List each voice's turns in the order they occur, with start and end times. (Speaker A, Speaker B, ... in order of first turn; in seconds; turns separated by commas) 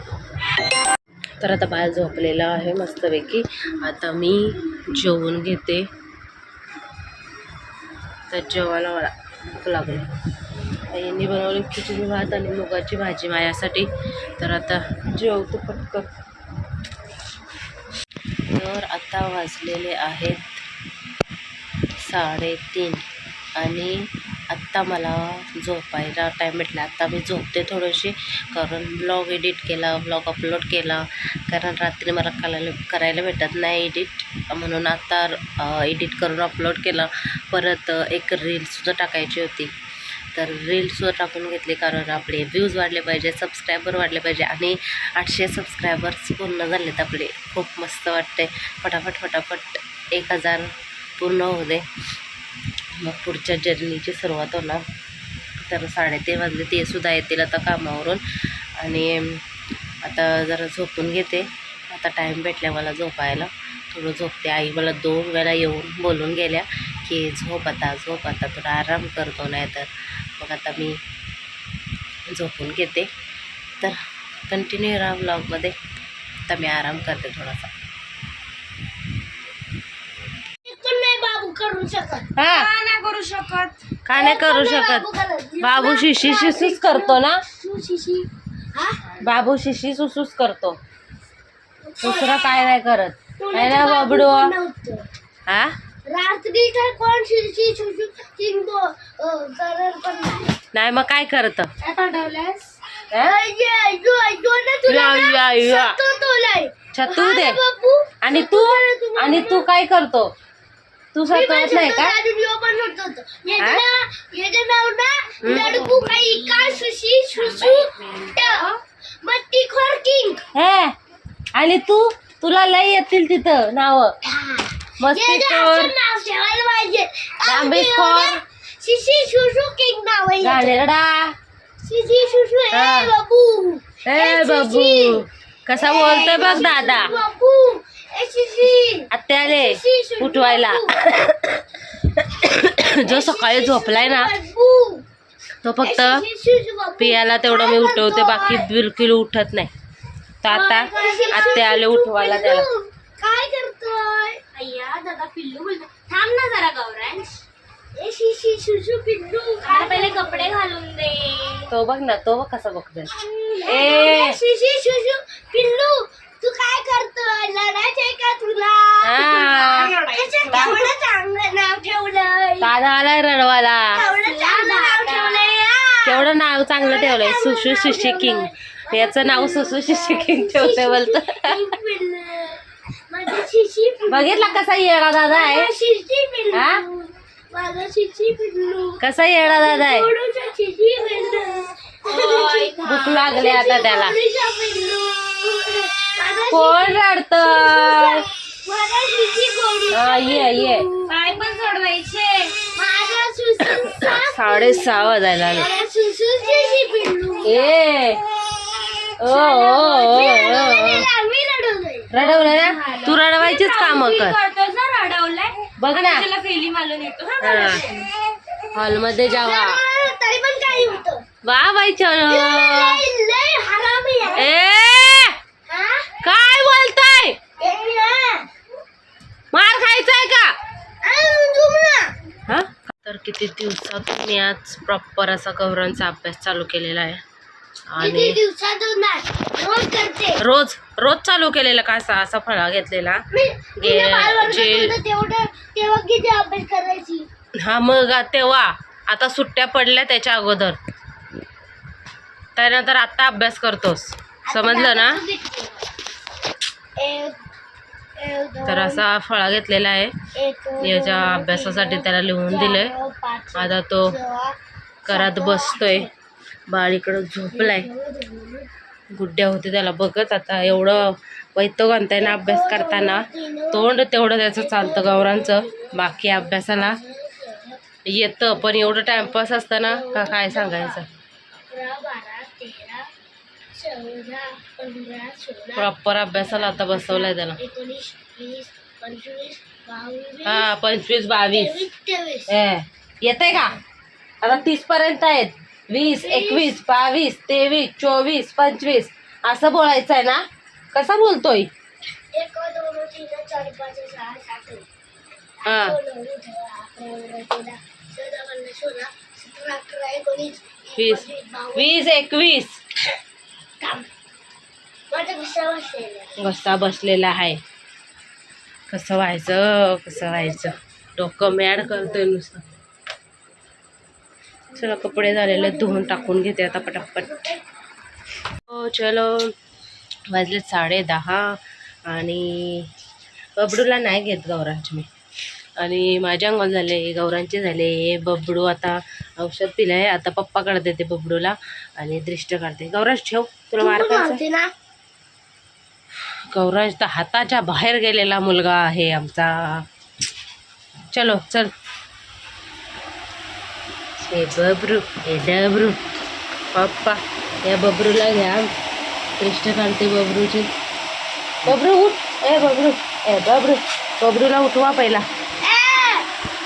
Speaker A: 1.4-5.9, Speaker A: 8.3-10.1, Speaker A: 10.9-16.1, Speaker A: 18.5-20.6, Speaker A: 22.0-23.0, Speaker A: 23.6-24.0, Speaker A: 24.5-39.7, Speaker A: 40.3-51.8, Speaker A: 53.0-54.8, Speaker A: 55.6-58.2, Speaker A: 58.8-59.4, Speaker A: 60.0-71.0, Speaker A: 72.3-73.1, Speaker A: 74.5-75.8, Speaker A: 76.5-77.7, Speaker B: 80.6-82.4, Speaker A: 82.3-82.7, Speaker C: 82.5-83.8, Speaker A: 84.0-85.0, Speaker B: 84.1-89.0, Speaker A: 85.6-87.4, Speaker A: 89.2-90.8, Speaker B: 91.8-92.6, Speaker A: 92.0-94.5, Speaker B: 93.4-95.0, Speaker A: 95.5-95.7, Speaker B: 96.0-100.6, Speaker A: 100.7-101.7, Speaker C: 101.8-102.7, Speaker A: 103.1-103.4, Speaker B: 103.2-109.6, Speaker A: 104.9-106.0, Speaker A: 106.9-107.6, Speaker A: 108.2-110.3, Speaker A: 111.1-112.1, Speaker B: 111.3-118.7, Speaker A: 113.6-113.8, Speaker A: 115.4-115.8, Speaker C: 115.5-116.8, Speaker C: 117.4-118.7, Speaker B: 119.2-120.4, Speaker A: 120.5-120.9, Speaker A: 121.5-124.1, Speaker B: 124.2-130.8, Speaker A: 125.0-125.9, Speaker A: 127.4-128.4, Speaker A: 130.4-131.3, Speaker B: 131.8-140.9, Speaker A: 132.7-133.1, Speaker A: 134.0-137.1, Speaker A: 139.1-144.3, Speaker B: 143.0-145.0, Speaker A: 145.6-146.2, Speaker B: 145.8-148.7, Speaker A: 147.0-149.7, Speaker A: 150.4-152.7, Speaker B: 150.4-154.4, Speaker C: 150.9-151.7, Speaker C: 154.5-157.4, Speaker B: 157.9-160.5, Speaker C: 159.6-161.7, Speaker A: 161.7-163.1, Speaker B: 163.5-172.7, Speaker A: 163.7-164.4, Speaker A: 169.0-170.0, Speaker C: 169.5-170.9, Speaker A: 172.6-174.0, Speaker B: 173.9-184.6, Speaker C: 173.9-175.6, Speaker A: 176.0-181.6, Speaker A: 184.1-185.7, Speaker B: 185.2-201.2, Speaker A: 186.5-186.8, Speaker A: 189.0-190.1, Speaker C: 192.1-193.3, Speaker A: 192.8-194.1, Speaker A: 196.5-198.2, Speaker A: 199.9-200.9, Speaker C: 201.1-202.6, Speaker B: 202.7-205.0, Speaker A: 203.8-205.7, Speaker B: 205.5-207.7, Speaker A: 207.4-208.2, Speaker A: 209.2-211.1, Speaker B: 209.2-212.1, Speaker A: 212.1-214.4, Speaker C: 212.1-218.1, Speaker A: 215.8-216.3, Speaker A: 217.4-217.8, Speaker B: 217.4-217.8, Speaker A: 218.7-219.8, Speaker B: 219.3-221.2, Speaker A: 221.4-223.0, Speaker B: 222.3-224.5, Speaker A: 224.3-225.3, Speaker B: 225.7-226.1, Speaker A: 226.2-227.4, Speaker B: 227.6-228.5, Speaker A: 229.5-230.6, Speaker B: 231.0-232.1, Speaker A: 232.5-237.2, Speaker A: 237.9-238.4, Speaker B: 238.0-240.4, Speaker A: 240.4-243.2, Speaker B: 243.3-247.3, Speaker A: 243.8-244.9, Speaker A: 247.6-250.8, Speaker A: 252.6-255.2, Speaker B: 254.4-255.8, Speaker B: 257.0-257.4, Speaker B: 258.2-259.0, Speaker A: 258.6-260.1, Speaker B: 260.4-264.6, Speaker A: 260.8-262.9, Speaker A: 263.5-264.1, Speaker A: 265.1-266.1, Speaker B: 265.1-266.1, Speaker A: 266.7-267.9, Speaker B: 267.5-268.7, Speaker A: 269.1-277.0, Speaker B: 272.2-274.0, Speaker B: 274.6-277.8, Speaker A: 278.0-281.1, Speaker B: 278.8-281.0, Speaker B: 281.7-283.1, Speaker B: 283.7-285.9, Speaker A: 285.8-287.6, Speaker B: 286.4-290.7, Speaker A: 290.4-291.9, Speaker B: 291.5-292.5, Speaker A: 292.5-293.8, Speaker A: 294.4-301.7, Speaker B: 296.0-296.7, Speaker B: 302.3-304.9, Speaker A: 305.6-306.0, Speaker B: 305.6-312.1, Speaker A: 311.0-312.8, Speaker B: 313.8-314.1, Speaker B: 315.1-316.4, Speaker A: 316.4-317.6, Speaker A: 318.9-322.6, Speaker A: 324.8-327.3, Speaker B: 324.9-327.6, Speaker A: 328.7-329.5, Speaker A: 330.3-331.6, Speaker A: 332.1-332.9, Speaker A: 333.6-335.1, Speaker A: 335.8-344.4, Speaker B: 343.8-344.7, Speaker A: 346.5-349.8, Speaker A: 351.1-351.7, Speaker A: 354.2-356.0, Speaker A: 356.7-358.7, Speaker A: 359.4-360.7, Speaker A: 361.6-365.2, Speaker B: 365.6-366.3